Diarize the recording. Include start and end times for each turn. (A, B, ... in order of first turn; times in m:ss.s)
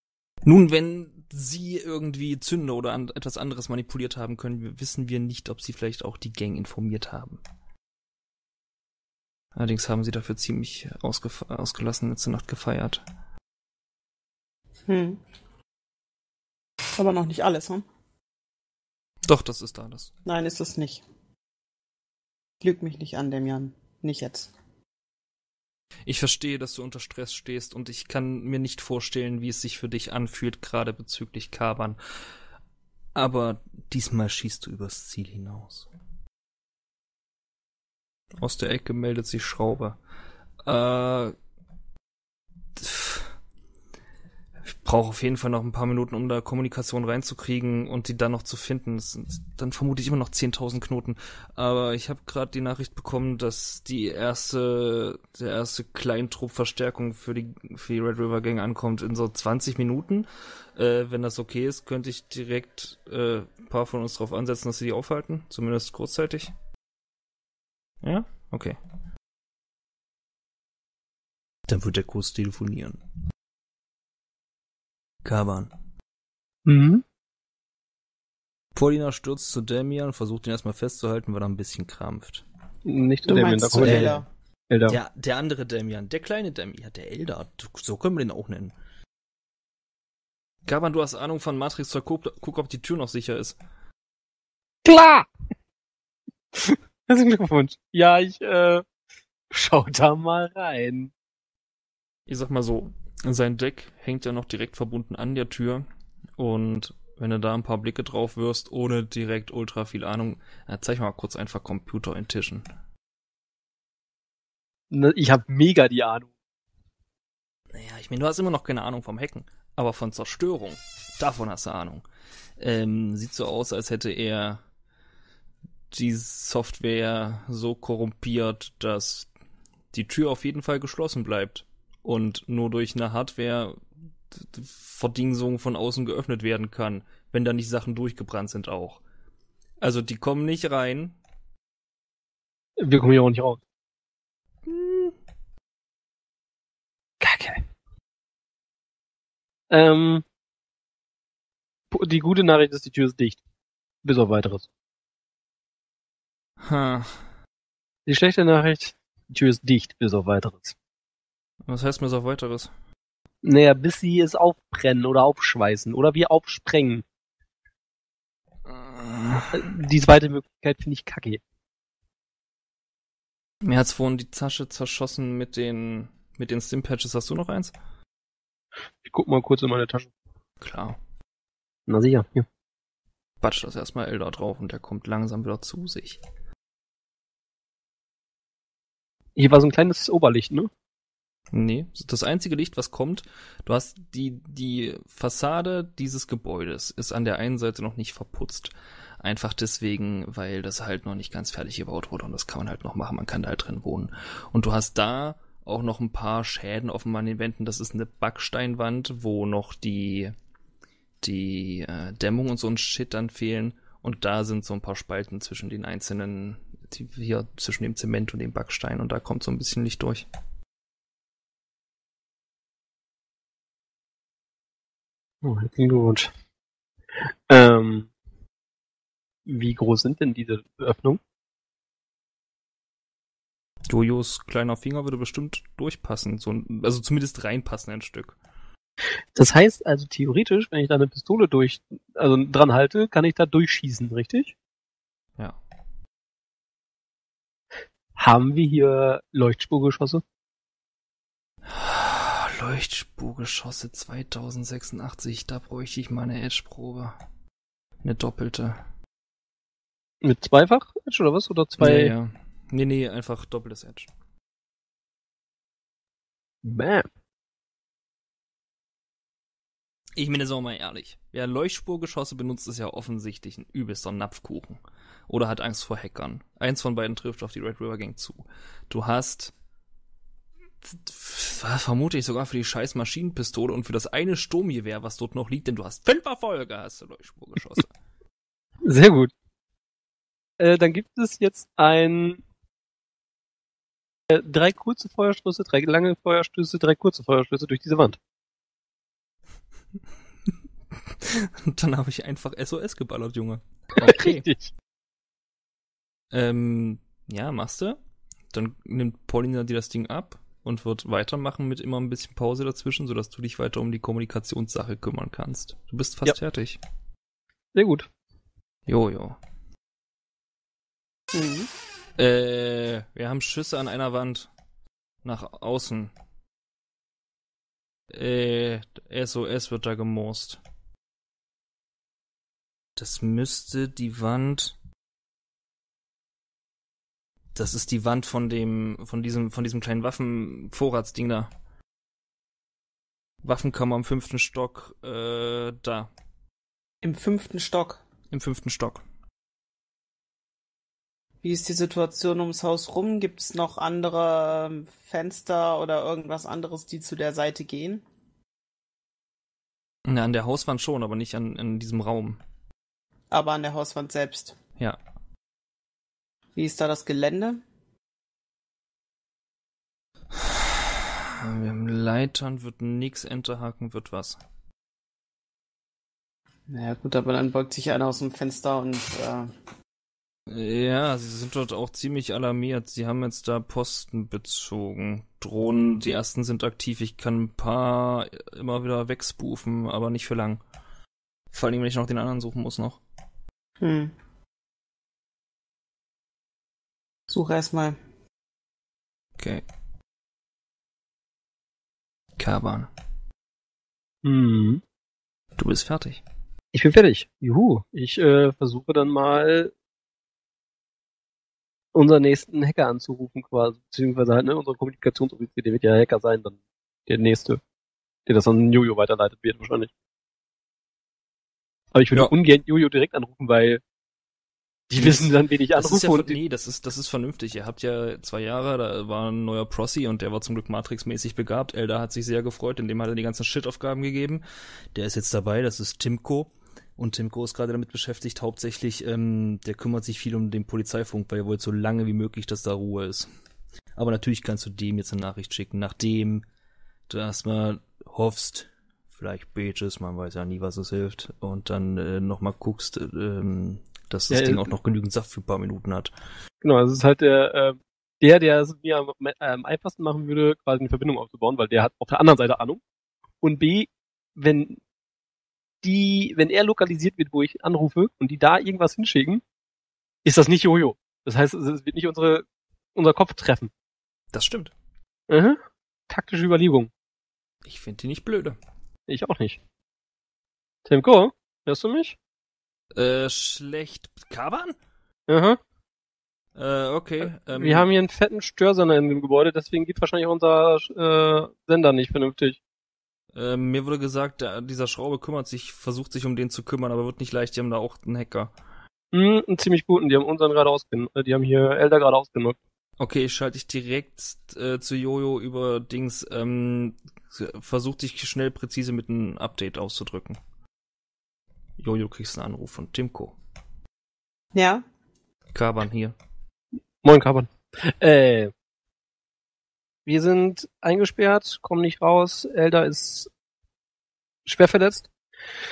0:00.4-0:07.4 A
0:09.5-0:13.0 A
0:14.9-0:15.2 B
0:17.0-0:17.8 B
0:19.2-0:20.1 A
0:20.2-0:21.0 B
0:22.6-0:24.5 B
0:26.0-0:32.0 A
0:33.1-0:35.9 A
0:38.4-0:40.0 A
0:40.6-0:41.3 A
0:42.8-0:43.3 A
0:44.6-1:06.5 A
1:08.0-1:08.8 A
1:11.7-1:13.0 A
1:15.2-1:15.7 A
1:16.6-1:17.0 C
1:18.7-1:22.4 A
1:22.8-1:24.2 C
1:23.3-1:24.2 B
1:23.8-1:24.1 A
1:24.7-1:25.0 C
1:24.9-1:28.7 A
1:30.6-1:33.6 A
1:34.8-1:35.3 C
1:36.5-1:38.8 C
1:39.5-1:41.1 C
1:42.3-1:45.8 A
1:46.4-1:52.6 A
1:54.9-1:56.3 C
1:57.7-2:02.0 A
2:02.6-2:04.6 A
2:05.9-2:09.3 A
2:09.9-2:13.8 A
2:14.3-2:19.0 A
2:19.8-2:21.2 A
2:22.8-2:23.6 C
2:24.6-2:25.1 A
2:27.2-2:27.6 C
2:29.7-2:30.2 C
2:31.9-2:33.4 C
2:34.0-2:34.7 C
2:36.6-2:37.2 A
2:38.1-2:40.7 C
2:41.7-2:42.7 A
2:43.4-2:47.0 C
2:48.6-2:49.6 A
2:49.5-2:51.4 C
2:53.6-2:57.7 A
2:59.0-3:00.1 C
3:00.6-3:01.0 A
3:01.9-3:02.4 C
3:03.4-3:06.2 A
3:09.4-3:10.7 C
3:11.5-3:30.3 A
3:31.2-3:40.3 A
3:45.4-3:46.3 C
3:47.2-3:48.1 C
3:49.4-3:51.2 C
3:53.9-3:58.4 A
3:59.3-4:04.5 C
4:08.2-4:10.2 C
4:11.7-4:17.2 A
4:18.0-4:18.8 A
4:20.2-4:22.1 C
4:21.8-4:24.1 A
4:26.6-4:27.1 C
4:30.2-4:39.5 A
4:40.8-4:47.9 A
4:48.8-4:49.3 C
4:50.6-4:52.4 C
4:54.3-4:58.2 C
5:01.1-5:04.5 A
5:04.0-5:04.7 C
5:06.3-5:08.0 A
5:08.5-5:16.8 A
5:17.7-5:18.1 C
5:18.9-5:19.4 A
5:21.3-5:21.7 B
5:22.2-5:24.5 A
5:25.2-5:26.1 A
5:28.1-5:30.6 A
5:33.0-5:34.8 A
5:37.5-5:41.5 A
5:43.4-5:46.1 A
5:47.0-5:48.0 B
5:48.3-5:49.0 A
5:51.4-5:58.0 B
6:00.0-6:02.4 A
6:03.3-6:04.6 B
6:06.6-6:07.6 B
6:11.4-6:14.4 A
6:16.7-6:19.5 B
6:20.5-6:30.6 A
6:31.5-6:33.0 A
6:33.8-6:34.1 B
6:37.3-6:38.0 B
6:39.4-6:39.6 A
6:42.4-6:42.9 A
6:44.2-6:44.8 C
6:45.6-6:46.2 A
6:46.7-6:49.7 C
6:51.9-6:57.6 C
6:58.3-6:59.9 C
7:01.9-7:03.8 C
7:04.9-7:06.4 C
7:05.0-7:14.4 A
7:14.9-7:23.3 A
7:24.0-7:26.4 A
7:27.1-7:36.1 A
7:34.3-7:34.6 C
7:36.6-7:42.8 C
7:43.4-7:44.8 C
7:45.8-7:49.4 C
7:50.2-7:53.7 C
7:54.3-7:54.7 A
7:55.3-7:56.9 C
7:57.6-7:58.6 A
7:59.1-7:59.6 C
8:00.8-8:02.2 C
8:02.9-8:04.8 A
8:05.3-8:05.6 C
8:06.6-8:07.9 A
8:07.6-8:12.6 C
8:13.3-8:18.5 A
8:19.1-8:22.6 C
8:23.0-8:30.4 A
8:31.8-8:33.4 A
8:34.5-8:34.8 B
8:35.5-8:36.1 A
8:37.0-8:38.5 C
8:40.0-8:43.3 C
8:44.4-8:45.1 C